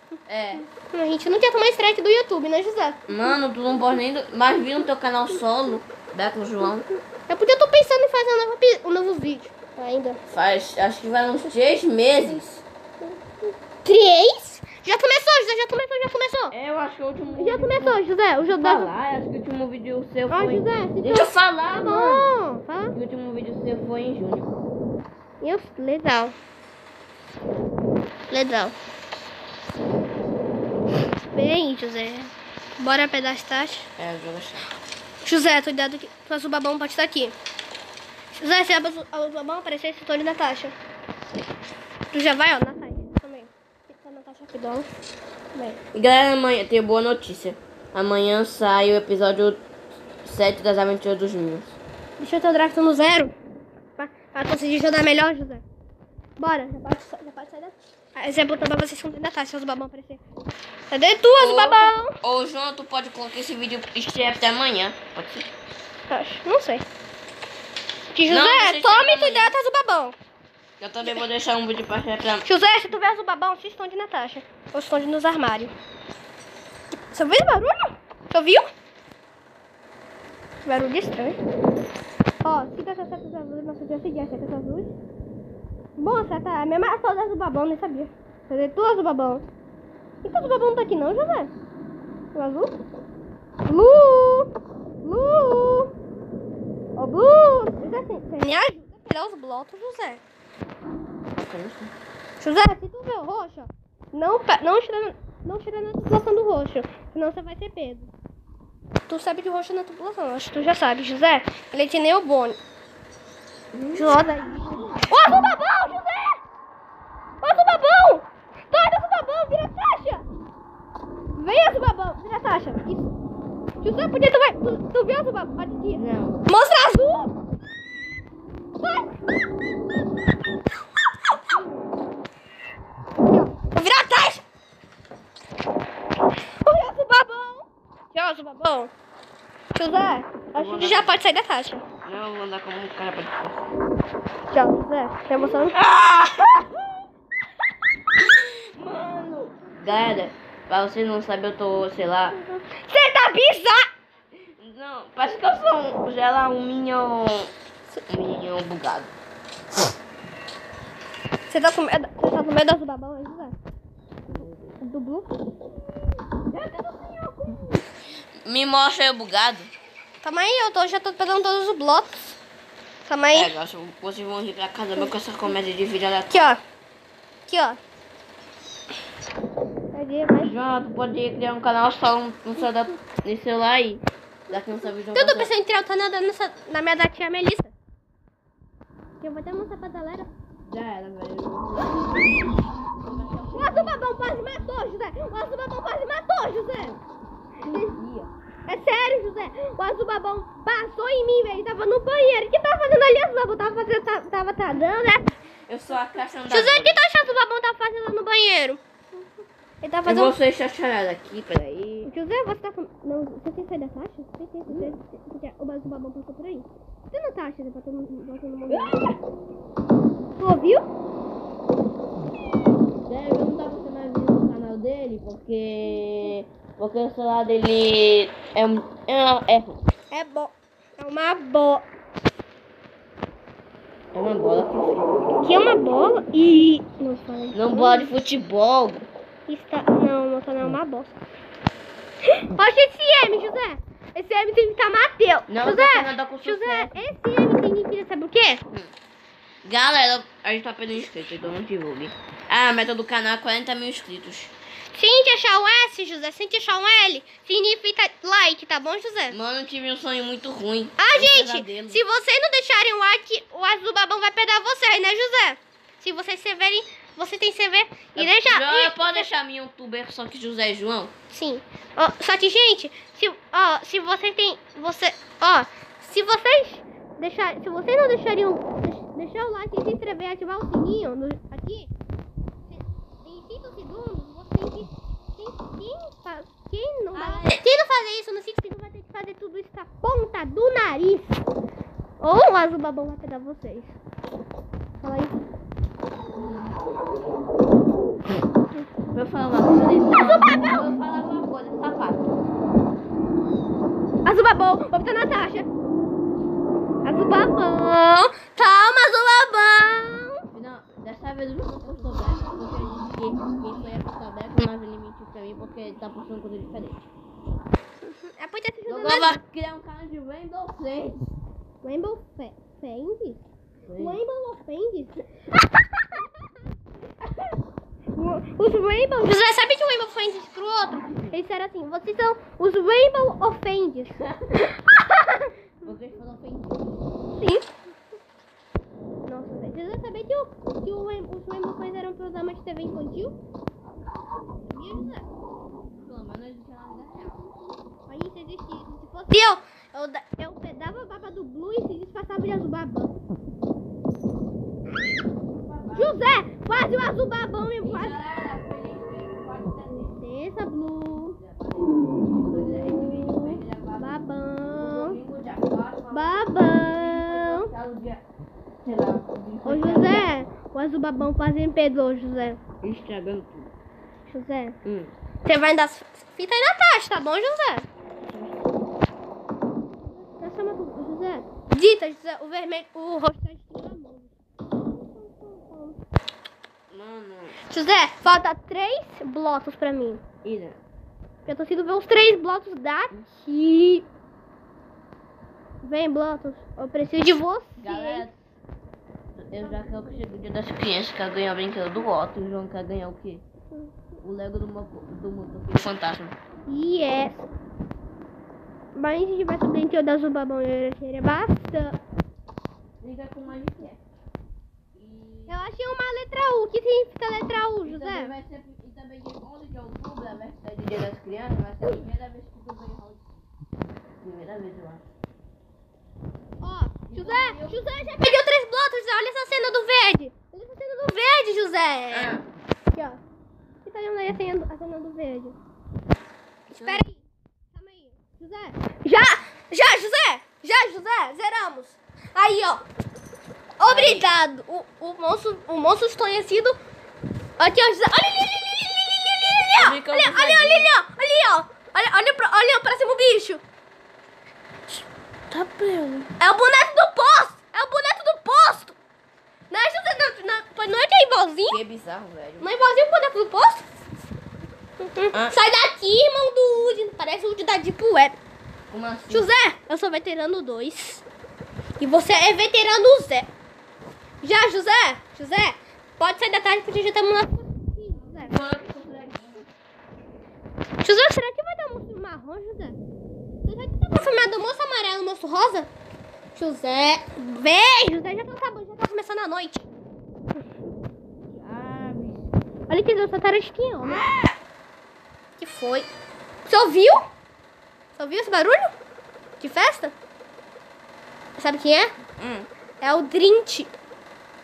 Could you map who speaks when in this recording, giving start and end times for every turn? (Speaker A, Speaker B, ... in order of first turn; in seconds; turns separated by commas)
Speaker A: 0.3-0.7, Speaker B: 0.6-3.0, Speaker A: 3.1-6.9, Speaker B: 7.3-10.2, Speaker A: 10.3-12.6, Speaker B: 13.4-16.6, Speaker A: 16.5-22.3, Speaker B: 17.4-18.9, Speaker B: 20.3-22.9, Speaker A: 22.9-24.5, Speaker B: 25.4-26.4, Speaker B: 28.3-28.7, Speaker B: 31.3-33.9, Speaker A: 34.0-34.7, Speaker B: 35.2-37.3, Speaker B: 38.4-40.7, Speaker B: 42.1-44.9, Speaker B: 45.5-45.8, Speaker A: 45.9-49.6, Speaker A: 50.2-51.7, Speaker B: 52.2-53.3, Speaker B: 54.0-55.6, Speaker B: 56.4-60.2, Speaker B: 60.9-62.1, Speaker A: 61.4-65.5, Speaker B: 66.1-66.8, Speaker B: 68.1-70.2, Speaker A: 68.3-69.5, Speaker A: 70.8-72.5, Speaker B: 72.5-75.7, Speaker B: 77.1-78.7, Speaker B: 80.7-81.4, Speaker B: 82.4-84.9, Speaker B: 86.0-89.5, Speaker B: 90.2-91.5, Speaker B: 92.3-92.7, Speaker B: 93.7-94.5, Speaker B: 95.0-95.9, Speaker B: 97.0-100.2, Speaker A: 101.4-101.9, Speaker B: 102.4-108.1, Speaker B: 109.1-112.6, Speaker A: 113.7-115.0, Speaker B: 113.9-116.4, Speaker B: 117.4-120.2, Speaker B: 121.4-123.1, Speaker B: 123.8-127.3, Speaker A: 125.9-126.5, Speaker B: 128.8-129.1, Speaker B: 133.3-134.4, Speaker B: 136.6-138.9, Speaker B: 139.8-141.8, Speaker A: 140.6-141.1, Speaker A: 142.1-143.7, Speaker B: 144.5-145.8, Speaker A: 145.4-147.0, Speaker A: 148.2-152.4, Speaker B: 152.3-153.9, Speaker A: 154.6-157.5, Speaker A: 158.1-159.1, Speaker B: 161.5-163.6, Speaker A: 164.2-164.8, Speaker B: 164.8-165.3, Speaker A: 166.5-167.8, Speaker A: 168.4-169.7, Speaker B: 170.2-172.4, Speaker B: 173.1-173.5, Speaker A: 173.3-176.4, Speaker B: 176.3-176.6, Speaker B: 177.5-177.8, Speaker B: 179.9-180.5, Speaker A: 180.4-185.5, Speaker B: 185.1-187.7, Speaker B: 189.2-190.3, Speaker A: 190.6-194.1, Speaker B: 193.5-197.0, Speaker A: 197.6-198.3, Speaker B: 197.6-197.9, Speaker B: 198.7-205.4, Speaker A: 205.7-207.0, Speaker B: 206.4-208.8, Speaker B: 209.8-210.4, Speaker A: 210.1-212.1, Speaker B: 212.1-219.0, Speaker A: 214.7-215.0, Speaker A: 218.7-219.2, Speaker B: 220.4-220.9, Speaker A: 223.1-229.8, Speaker B: 230.1-231.9, Speaker A: 234.1-235.1, Speaker B: 235.4-238.1, Speaker A: 237.5-239.1, Speaker B: 239.5-241.2, Speaker B: 242.3-248.6, Speaker A: 245.5-247.0, Speaker A: 249.6-254.5, Speaker B: 254.9-259.4, Speaker A: 259.3-262.0, Speaker B: 261.0-269.3, Speaker A: 268.1-271.1, Speaker B: 271.3-281.9, Speaker B: 282.7-291.4, Speaker A: 287.1-287.6, Speaker B: 292.2-294.0, Speaker B: 295.0-295.4, Speaker A: 299.1-302.2, Speaker B: 300.1-300.9, Speaker B: 304.2-305.7, Speaker B: 307.0-310.4, Speaker A: 310.5-317.0, Speaker B: 318.1-319.4, Speaker A: 318.9-321.3, Speaker B: 321.8-323.4, Speaker A: 323.9-324.2, Speaker B: 324.0-325.2, Speaker B: 328.2-335.6, Speaker A: 334.3-334.6, Speaker A: 335.8-337.0, Speaker B: 337.4-337.7, Speaker B: 339.3-343.4, Speaker B: 344.7-345.3, Speaker A: 345.9-347.5, Speaker B: 348.1-353.1, Speaker A: 355.5-356.2, Speaker B: 355.9-358.2, Speaker A: 357.8-360.2, Speaker B: 360.2-361.4, Speaker A: 361.1-368.2, Speaker B: 363.0-365.2, Speaker B: 366.1-367.7, Speaker A: 368.8-370.5, Speaker B: 369.6-372.6, Speaker A: 372.8-373.7, Speaker B: 374.3-374.8, Speaker A: 374.8-375.1, Speaker B: 375.4-377.9, Speaker A: 378.3-378.6, Speaker B: 380.4-386.0, Speaker A: 386.9-387.6, Speaker B: 387.7-390.2, Speaker A: 390.4-390.8, Speaker B: 391.5-394.1, Speaker B: 395.8-398.3, Speaker A: 397.8-398.5, Speaker A: 399.4-403.4, Speaker B: 399.6-400.0, Speaker A: 404.2-406.4, Speaker B: 406.7-407.5, Speaker B: 408.9-412.0, Speaker A: 413.0-414.0, Speaker A: 414.9-415.6, Speaker B: 415.5-418.3, Speaker A: 417.8-423.4, Speaker A: 424.2-425.1, Speaker B: 426.6-432.4, Speaker A: 427.1-427.9, Speaker A: 432.1-432.4, Speaker B: 432.9-433.2, Speaker B: 433.9-435.6, Speaker A: 436.7-437.0, Speaker B: 436.8-442.8, Speaker B: 443.8-446.8, Speaker A: 443.9-444.3, Speaker B: 447.6-453.6, Speaker A: 449.8-450.9, Speaker B: 454.9-459.0, Speaker B: 459.7-461.8, Speaker A: 461.7-462.7, Speaker B: 462.6-463.9, Speaker B: 465.0-468.4, Speaker A: 468.9-469.5, Speaker B: 469.3-471.2, Speaker B: 472.0-473.5, Speaker B: 474.4-478.6, Speaker A: 478.4-479.7, Speaker B: 481.0-483.0, Speaker B: 483.6-485.9, Speaker A: 484.1-484.5, Speaker B: 486.6-489.9, Speaker A: 491.5-492.5, Speaker B: 492.9-494.3, Speaker A: 494.0-494.6, Speaker B: 495.6-496.1, Speaker B: 496.7-497.2, Speaker B: 498.2-498.9, Speaker B: 499.6-500.1, Speaker B: 501.6-502.1, Speaker A: 502.4-502.7, Speaker B: 503.0-503.9